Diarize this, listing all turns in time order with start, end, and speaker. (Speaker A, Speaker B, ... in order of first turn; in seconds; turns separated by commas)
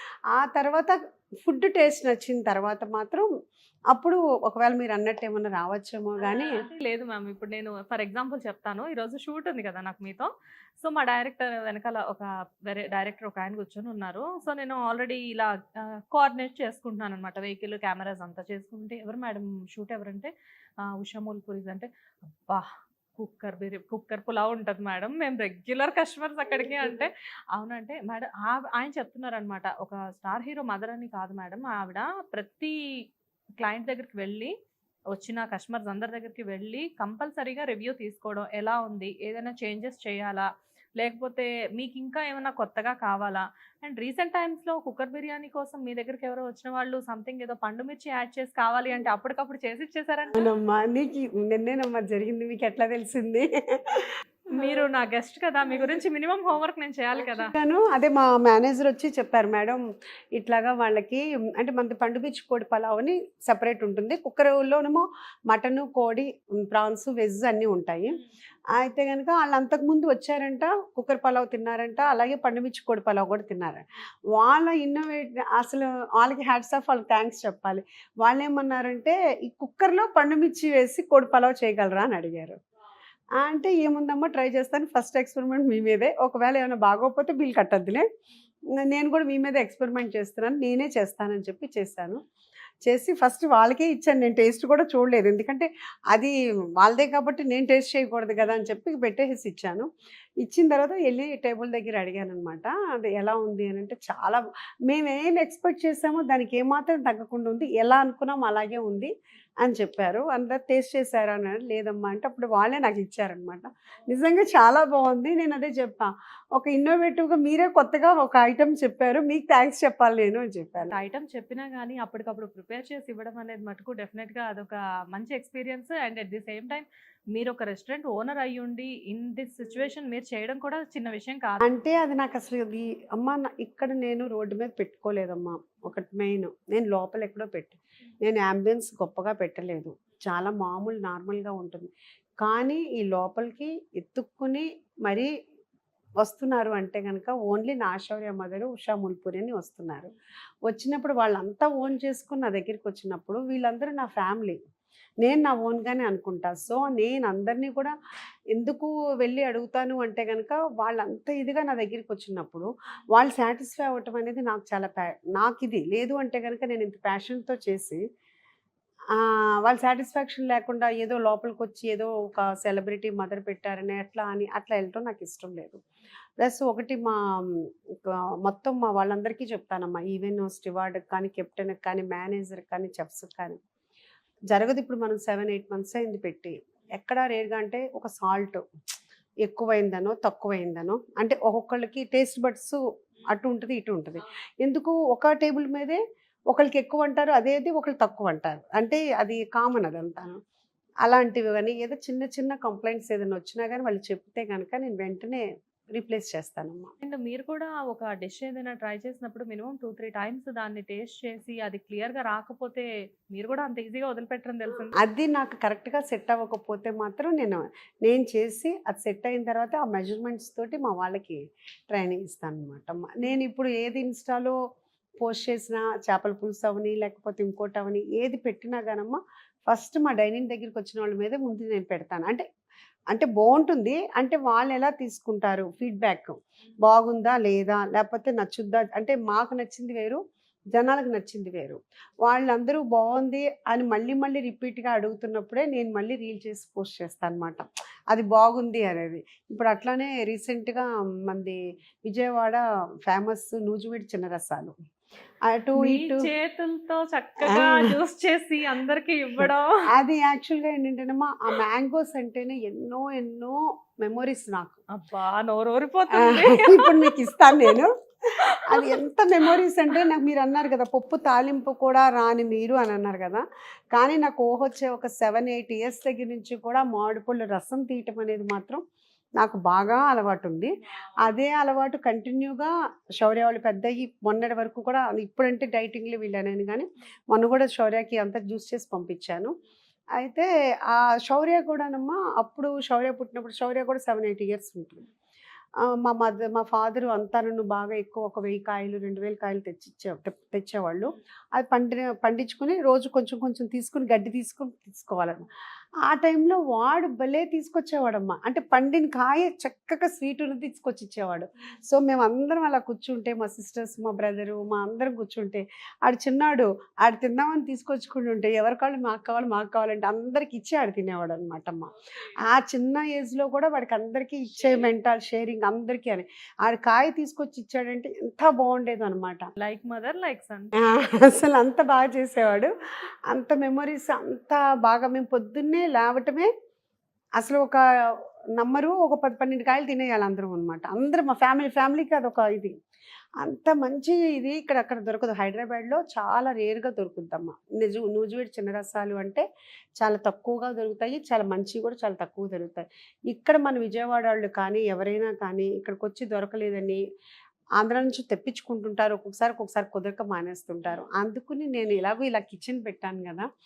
Speaker A: 0.3-3.3, Speaker A: 3.9-6.6, Speaker B: 6.2-20.3, Speaker B: 20.8-32.8, Speaker B: 33.6-34.5, Speaker B: 35.1-50.5, Speaker A: 50.3-54.1, Speaker B: 54.5-57.5, Speaker A: 57.2-59.8, Speaker A: 60.3-68.2, Speaker A: 68.7-73.8, Speaker A: 74.3-82.6, Speaker A: 83.4-88.1, Speaker A: 88.8-92.2, Speaker A: 92.8-99.9, Speaker A: 100.4-120.9, Speaker B: 120.9-131.6, Speaker A: 131.6-141.9, Speaker A: 142.4-145.3, Speaker A: 146.2-150.1, Speaker A: 150.7-154.6, Speaker A: 155.2-157.9, Speaker A: 158.5-168.0, Speaker A: 169.1-175.8, Speaker A: 176.4-183.6, Speaker A: 184.5-188.6, Speaker A: 189.4-196.0, Speaker A: 196.5-200.4, Speaker A: 201.0-206.9, Speaker B: 207.0-214.9, Speaker A: 215.0-224.5, Speaker A: 225.2-232.4, Speaker A: 233.1-240.2, Speaker A: 240.7-254.7, Speaker A: 255.5-256.3, Speaker B: 255.8-259.8, Speaker A: 257.4-258.0, Speaker A: 259.4-264.8, Speaker B: 264.9-267.7, Speaker A: 266.1-278.8, Speaker B: 268.4-268.9, Speaker A: 279.4-289.5, Speaker A: 290.1-295.0, Speaker A: 295.9-305.5, Speaker A: 306.0-329.5, Speaker B: 329.6-330.7, Speaker A: 330.8-332.7, Speaker A: 333.3-336.5, Speaker A: 337.4-342.7, Speaker A: 343.4-349.4, Speaker A: 350.0-357.0, Speaker A: 357.8-363.5